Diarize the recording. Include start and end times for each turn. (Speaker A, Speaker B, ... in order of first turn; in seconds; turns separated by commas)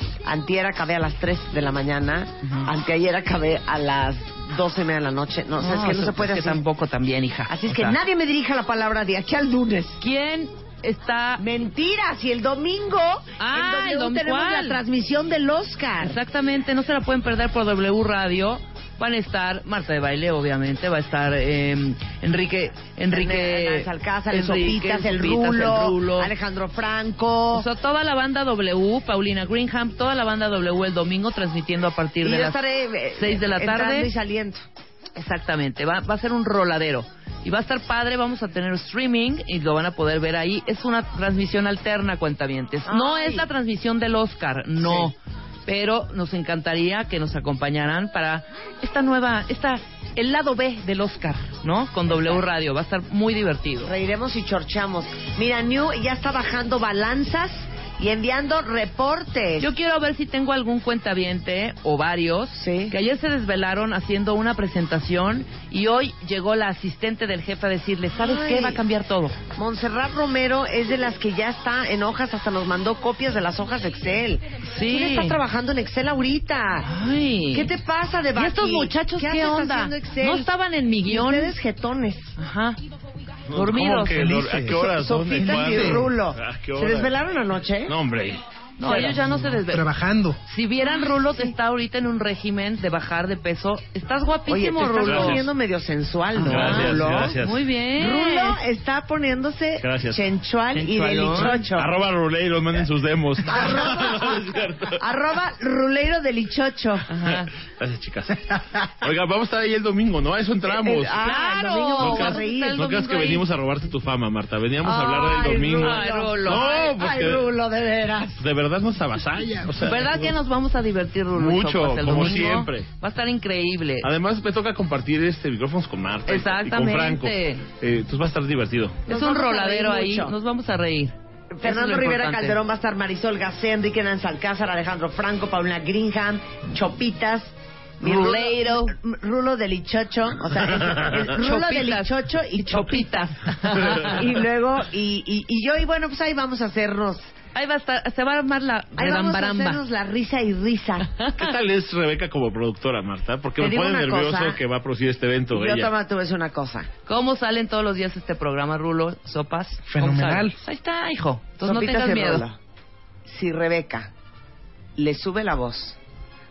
Speaker A: 0.2-6.6, Speaker B: 2.4-2.7, Speaker B: 5.6-8.0, Speaker A: 7.5-10.0, Speaker B: 10.0-11.4, Speaker A: 11.4-16.2, Speaker B: 13.4-14.8, Speaker B: 16.0-26.3, Speaker A: 23.1-27.7, Speaker B: 27.5-32.6, Speaker A: 32.2-34.6, Speaker B: 33.2-34.1, Speaker B: 35.2-53.9, Speaker A: 42.9-43.5, Speaker A: 44.8-45.1, Speaker A: 52.1-52.4, Speaker A: 53.8-59.7, Speaker B: 59.6-69.4, Speaker A: 62.5-63.0, Speaker A: 68.2-68.8, Speaker A: 69.5-76.9, Speaker B: 74.7-75.4, Speaker B: 76.8-77.7, Speaker A: 77.5-80.5, Speaker B: 78.4-81.5, Speaker A: 81.0-82.3, Speaker B: 82.4-82.8, Speaker C: 83.5-87.1, Speaker B: 83.5-84.2, Speaker D: 84.1-86.1, Speaker A: 84.7-88.0, Speaker C: 87.9-88.4, Speaker B: 88.8-89.9, Speaker A: 88.8-89.3, Speaker D: 89.1-90.4, Speaker B: 90.5-95.5, Speaker A: 90.8-91.5, Speaker A: 94.5-97.4, Speaker C: 95.0-95.4, Speaker B: 96.3-98.6, Speaker C: 96.4-97.6, Speaker A: 98.0-101.9, Speaker C: 99.8-100.2, Speaker B: 100.7-101.7, Speaker C: 101.6-105.0, Speaker A: 103.4-107.1, Speaker B: 107.1-107.5, Speaker C: 107.8-111.2, Speaker A: 110.7-112.9, Speaker B: 111.2-113.5, Speaker C: 112.0-117.4, Speaker A: 114.8-118.4, Speaker B: 115.8-116.8, Speaker C: 118.4-120.3, Speaker B: 119.8-124.1, Speaker C: 121.3-122.9, Speaker C: 124.0-129.0, Speaker B: 126.3-127.7, Speaker B: 129.1-132.6, Speaker A: 129.1-130.3, Speaker A: 131.5-147.3, Speaker B: 138.0-138.9, Speaker B: 141.1-144.3, Speaker B: 147.6-149.8, Speaker A: 148.9-151.1, Speaker B: 151.2-151.5, Speaker C: 151.4-155.9, Speaker A: 153.6-154.6, Speaker A: 155.5-156.9, Speaker B: 157.1-162.4, Speaker D: 159.9-160.6, Speaker A: 161.6-162.6, Speaker A: 163.3-164.1, Speaker A: 165.0-166.0